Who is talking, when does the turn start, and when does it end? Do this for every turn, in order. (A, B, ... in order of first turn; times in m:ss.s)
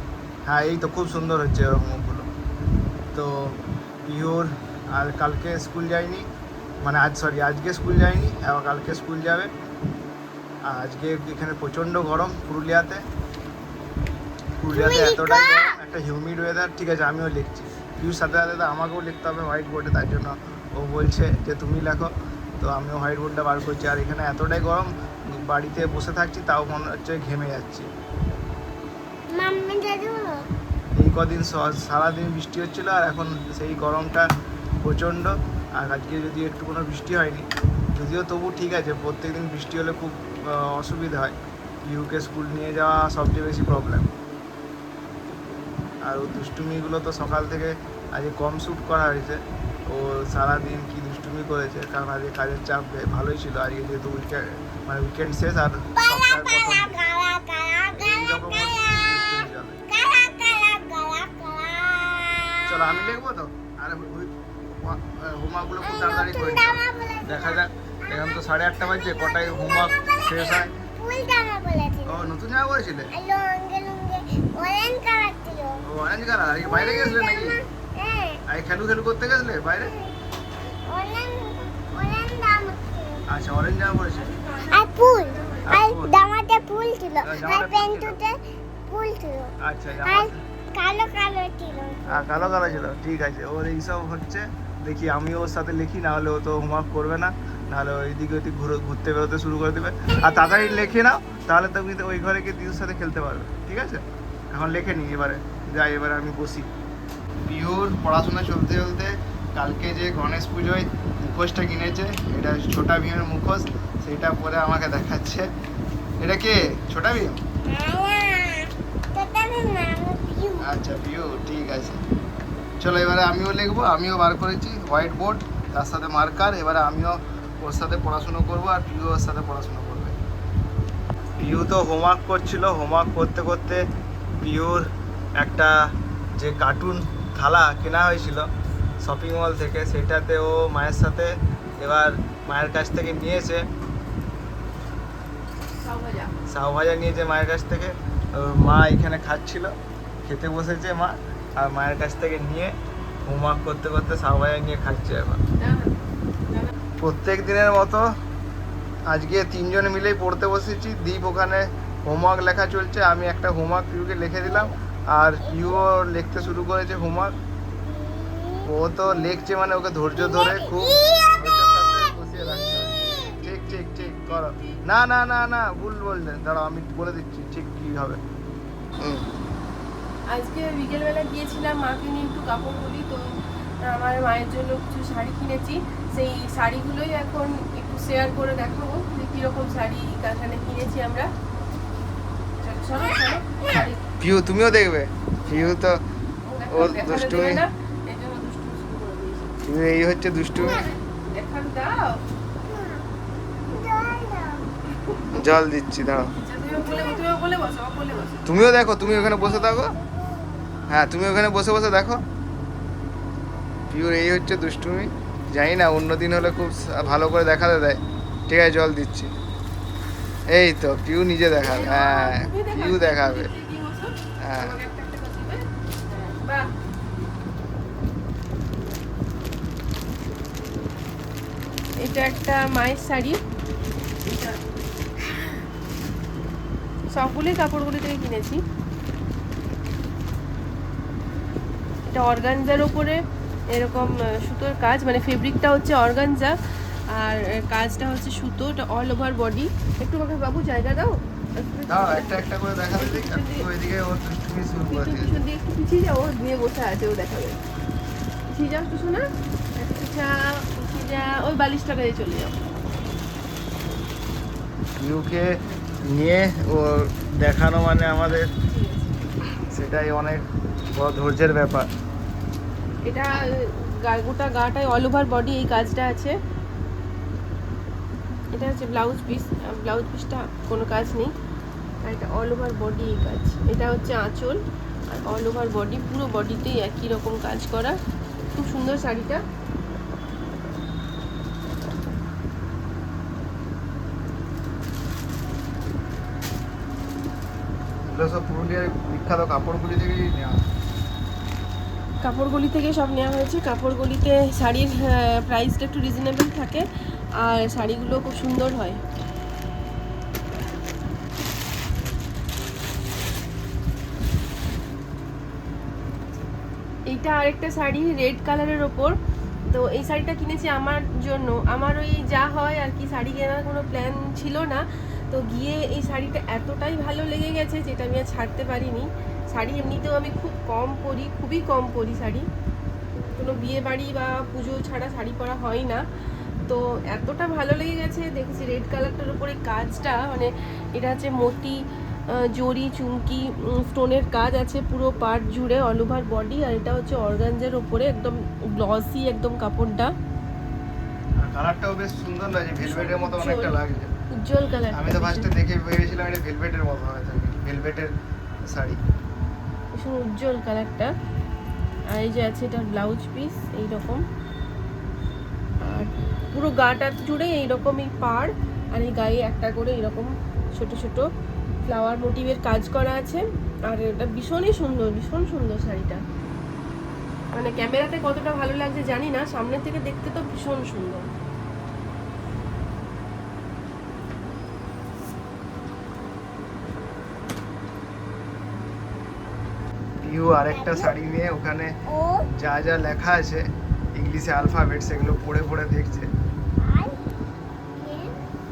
0:00.5-0:02.3 A
0:03.1-0:06.3 A
0:06.8-0:09.5 A
0:10.7-0:13.0 A
0:14.6-0:27.9 A
0:14.7-0:15.8 B
0:29.3-0:30.5 B
0:31.0-0:34.3 A
0:34.8-0:44.1 A
0:46.0-0:57.0 A
0:56.0-0:59.0 B
0:58.0-0:59.8 A
0:59.9-1:02.8 B
1:02.7-1:10.7 A
1:05.8-1:07.7 B
1:09.0-1:12.3 B
1:12.0-1:13.1 A
1:13.1-1:15.8 B
1:15.8-1:17.6 A
1:16.6-1:18.4 B
1:18.5-1:19.9 A
1:19.9-1:20.1 B
1:20.9-1:23.3 B
1:23.3-1:24.3 A
1:24.0-1:25.8 C
1:24.7-1:28.4 B
1:25.7-1:26.1 A
1:27.2-1:28.2 A
1:28.9-1:32.2 B
1:29.6-1:30.4 A
1:32.1-1:46.7 A
1:47.5-1:55.5 A
1:56.2-1:57.4 A
1:57.7-2:00.7 B
2:00.6-2:02.0 A
2:02.8-2:10.2 A
2:11.4-2:13.9 A
2:14.4-2:15.7 A
2:16.4-2:18.5 A
2:19.0-2:23.7 A
2:25.7-2:26.4 C
2:26.5-2:35.4 A
2:35.6-2:36.7 C
2:37.0-2:38.1 A
2:39.1-2:47.4 A
2:45.5-2:45.8 B
2:47.8-2:48.7 B
2:48.6-2:58.2 A
2:50.2-2:51.5 B
2:54.3-2:54.8 C
2:59.0-2:59.3 A
3:00.3-3:03.2 C
3:03.8-3:11.3 C
3:12.6-3:14.0 C
3:13.8-3:16.0 A
3:16.4-3:19.6 C
3:16.7-3:17.6 A
3:19.6-3:20.9 A
3:20.6-3:20.9 B
3:21.3-3:22.2 C
3:22.7-3:23.0 B
3:23.7-3:24.7 B
3:25.1-3:25.4 C
3:25.3-3:26.3 A
3:26.3-3:28.5 C
3:26.9-3:27.2 B
3:28.5-3:30.0 A
3:29.1-3:30.7 B
3:30.9-3:32.2 A
3:33.9-3:39.3 A
3:40.5-3:43.5 A
3:41.6-3:46.7 C
3:44.4-3:44.8 A
3:52.0-3:53.4 C
3:54.2-3:54.6 C
3:57.1-3:58.6 C
4:02.1-4:06.6 C
4:07.1-4:13.7 C
4:11.9-4:15.4 A
4:14.9-4:17.6 C
4:18.5-4:22.6 C
4:25.0-4:25.5 A
4:26.0-4:28.5 A
4:28.6-4:29.2 C
4:29.5-4:31.9 A
4:33.1-4:36.4 C
4:38.5-4:41.3 C
4:42.0-4:48.0 C
4:48.6-4:49.4 C
4:58.1-5:00.6 A
5:02.2-5:06.9 C
5:07.4-5:09.0 C
5:17.1-5:19.2 C
5:19.7-5:32.5 C
5:33.4-5:36.0 C
5:36.7-5:41.8 C
5:42.3-5:50.1 C
5:51.4-5:54.1 A
5:52.8-5:53.8 C
5:54.3-5:55.5 C
5:54.9-5:58.1 A
5:58.7-5:59.0 A
5:59.9-6:01.1 C
6:02.1-6:04.2 C
6:05.8-6:11.3 C
6:11.8-6:16.2 C
6:17.5-6:21.2 C
6:30.2-6:32.0 A
6:30.7-6:31.1 B
6:32.1-6:32.5 B
6:32.5-6:33.6 A
6:34.2-6:36.3 A
6:36.8-6:37.2 B
6:38.0-6:38.4 B